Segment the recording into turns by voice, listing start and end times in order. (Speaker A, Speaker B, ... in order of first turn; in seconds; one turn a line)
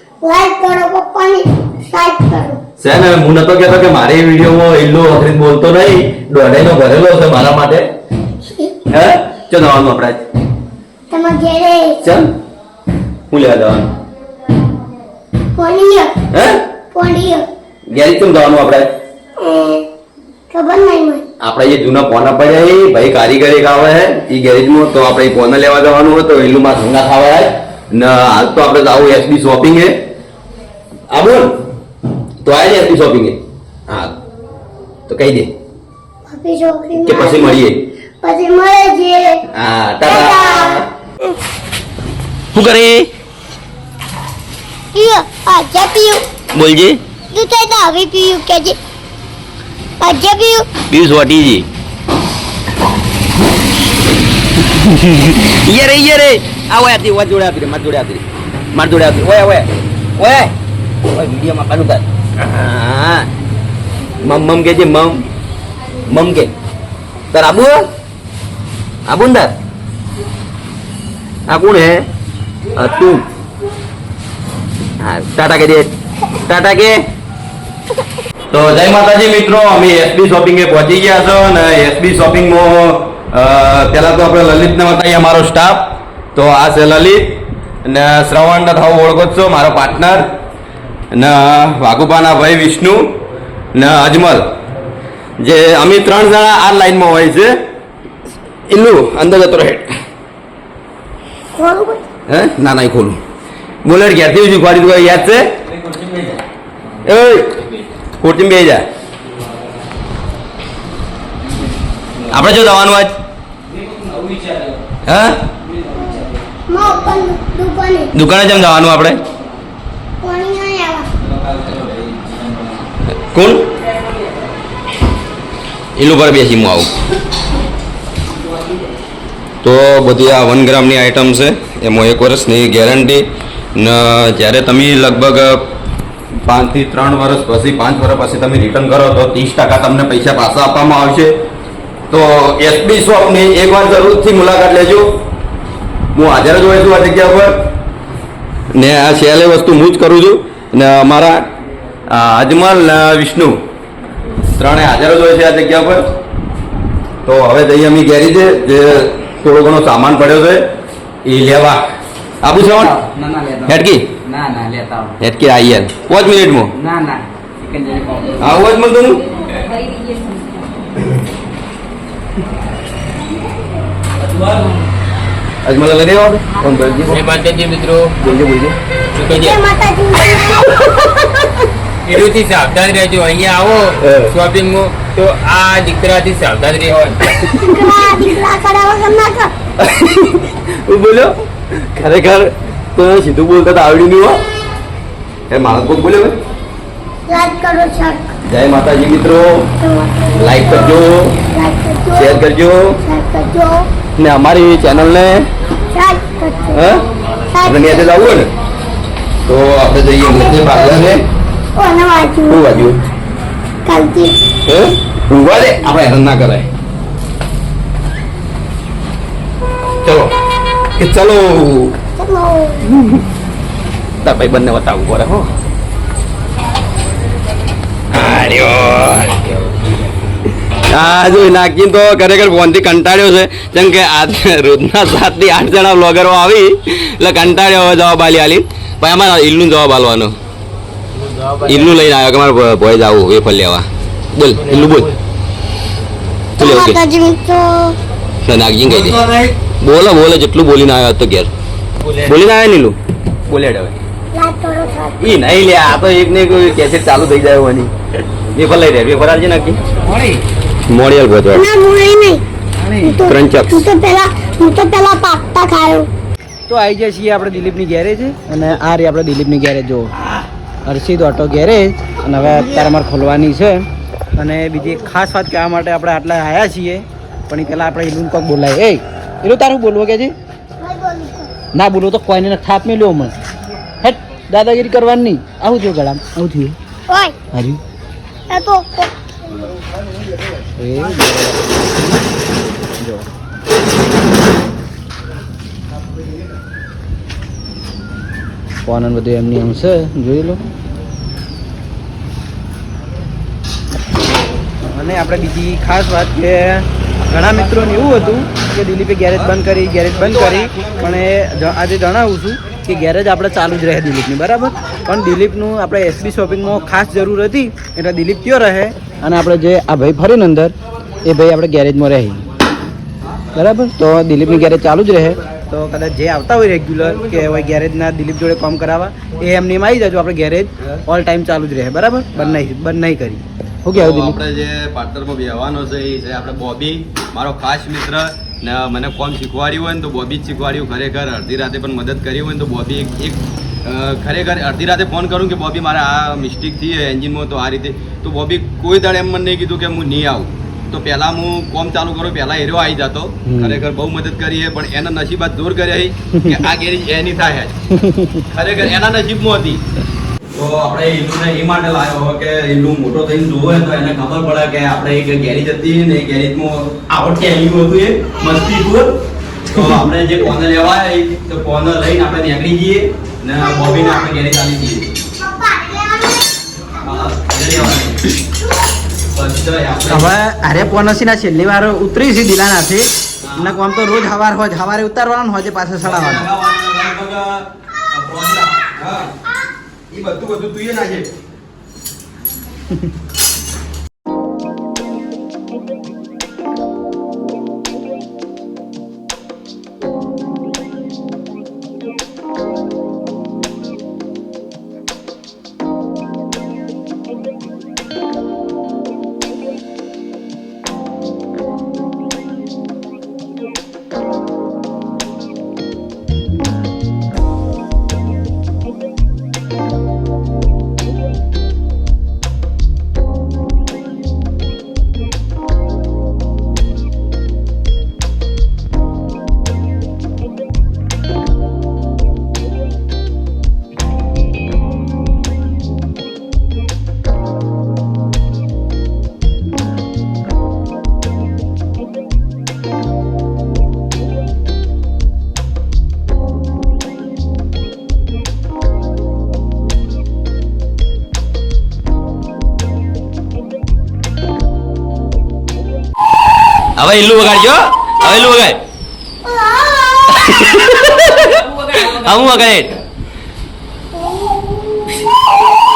Speaker A: 0.2-2.6
Speaker B: 2.8-7.9
Speaker B: 8.9-10.2
Speaker A: 11.1-12.0
Speaker B: 12.0-12.3
Speaker B: 13.3-13.9
Speaker A: 15.6-16.2
Speaker B: 16.3-16.6
Speaker A: 16.9-17.5
Speaker B: 17.9-18.9
Speaker A: 19.4-19.9
Speaker A: 20.5-21.2
Speaker B: 21.4-29.9
Speaker B: 31.1-31.6
Speaker B: 32.4-34.1
Speaker B: 35.1-35.5
Speaker A: 36.3-37.6
Speaker B: 37.0-37.8
Speaker A: 38.2-39.4
Speaker B: 39.5-40.9
Speaker A: 40.0-41.3
Speaker B: 42.5-43.1
Speaker A: 44.9-46.2
Speaker B: 46.5-47.0
Speaker A: 47.3-48.8
Speaker A: 50.0-50.7
Speaker B: 50.9-51.7
Speaker B: 54.9-60.5
Speaker B: 61.1-63.3
Speaker B: 64.2-65.2
Speaker B: 66.1-66.5
Speaker B: 67.3-67.9
Speaker B: 69.1-69.5
Speaker B: 71.5-72.1
Speaker B: 72.8-73.2
Speaker B: 75.0-77.0
Speaker B: 78.5-87.3
Speaker B: 87.8-90.3
Speaker B: 91.1-93.1
Speaker B: 93.8-94.5
Speaker B: 95.4-97.5
Speaker B: 98.7-99.9
Speaker A: 101.5-102.0
Speaker B: 102.3-103.2
Speaker B: 103.8-105.5
Speaker B: 107.0-108.8
Speaker B: 112.2-113.2
Speaker B: 115.0-115.5
Speaker A: 115.9-118.1
Speaker B: 118.1-119.2
Speaker A: 120.2-121.1
Speaker B: 123.2-123.7
Speaker B: 126.0-126.9
Speaker B: 129.6-135.7
Speaker B: 136.4-141.3
Speaker B: 142.1-145.2
Speaker B: 146.1-147.6
Speaker B: 148.7-151.4
Speaker B: 152.1-153.6
Speaker B: 154.6-156.1
Speaker B: 157.2-160.7
Speaker B: 161.2-161.8
Speaker B: 162.4-163.0
Speaker C: 163.0-163.7
Speaker B: 163.7-164.2
Speaker C: 164.3-165.1
Speaker B: 165.2-166.7
Speaker C: 166.8-168.4
Speaker B: 168.4-169.2
Speaker B: 175.7-177.2
Speaker D: 177.1-178.2
Speaker B: 178.2-178.8
Speaker D: 179.2-179.6
Speaker A: 179.3-180.9
Speaker D: 182.1-187.6
Speaker B: 184.0-184.3
Speaker A: 187.6-189.5
Speaker B: 189.8-194.4
Speaker B: 195.5-196.4
Speaker A: 197.3-198.3
Speaker B: 198.5-199.7
Speaker A: 199.8-202.4
Speaker B: 200.4-201.3
Speaker B: 202.1-203.0
Speaker A: 203.0-203.9
Speaker B: 204.2-205.4
Speaker A: 205.9-206.8
Speaker B: 206.7-207.0
Speaker A: 207.5-208.1
Speaker B: 207.6-208.5
Speaker B: 209.5-211.2
Speaker A: 210.2-210.8
Speaker A: 211.8-212.7
Speaker B: 212.5-213.0
Speaker A: 213.8-214.4
Speaker B: 214.7-216.7
Speaker B: 220.0-220.3
Speaker B: 221.0-222.0
Speaker A: 222.2-222.9
Speaker B: 224.2-225.5
Speaker B: 228.1-229.4
Speaker B: 230.9-240.3
Speaker D: 241.2-241.9
Speaker B: 241.7-245.1
Speaker D: 244.5-245.2
Speaker A: 246.6-248.0
Speaker B: 246.6-247.0
Speaker B: 248.4-249.3
Speaker D: 249.0-249.5
Speaker B: 249.8-251.5
Speaker D: 252.0-252.3
Speaker B: 252.2-253.9
Speaker A: 254.3-255.2
Speaker B: 255.2-257.9
Speaker B: 258.5-259.8
Speaker C: 260.1-260.4
Speaker B: 260.9-261.7
Speaker A: 261.5-262.4
Speaker C: 262.8-263.1
Speaker A: 263.0-266.1
Speaker B: 263.2-263.9
Speaker C: 266.7-270.1
Speaker C: 270.9-273.9
Speaker C: 274.4-280.3
Speaker A: 280.8-281.6
Speaker C: 281.7-283.4
Speaker C: 284.0-286.8
Speaker A: 287.1-287.4
Speaker C: 287.5-287.8
Speaker A: 288.5-289.1
Speaker C: 290.8-292.2
Speaker C: 293.0-293.3
Speaker C: 298.9-300.7
Speaker C: 304.9-322.4
Speaker C: 323.5-334.4
Speaker B: 332.4-332.6
Speaker B: 333.9-357.7
Speaker C: 353.5-353.8
Speaker C: 356.3-356.6
Speaker C: 357.9-358.4
Speaker B: 358.5-359.8
Speaker B: 360.5-369.1
Speaker B: 369.6-375.1
Speaker A: 373.6-374.1
Speaker A: 375.4-376.5
Speaker B: 377.0-378.3
Speaker B: 379.3-380.3
Speaker C: 380.1-386.4
Speaker B: 383.4-383.7
Speaker B: 386.0-389.3
Speaker B: 390.1-391.3
Speaker B: 457.0-458.8
Speaker A: 459.4-460.6
Speaker B: 460.3-462.9
Speaker A: 464.2-465.2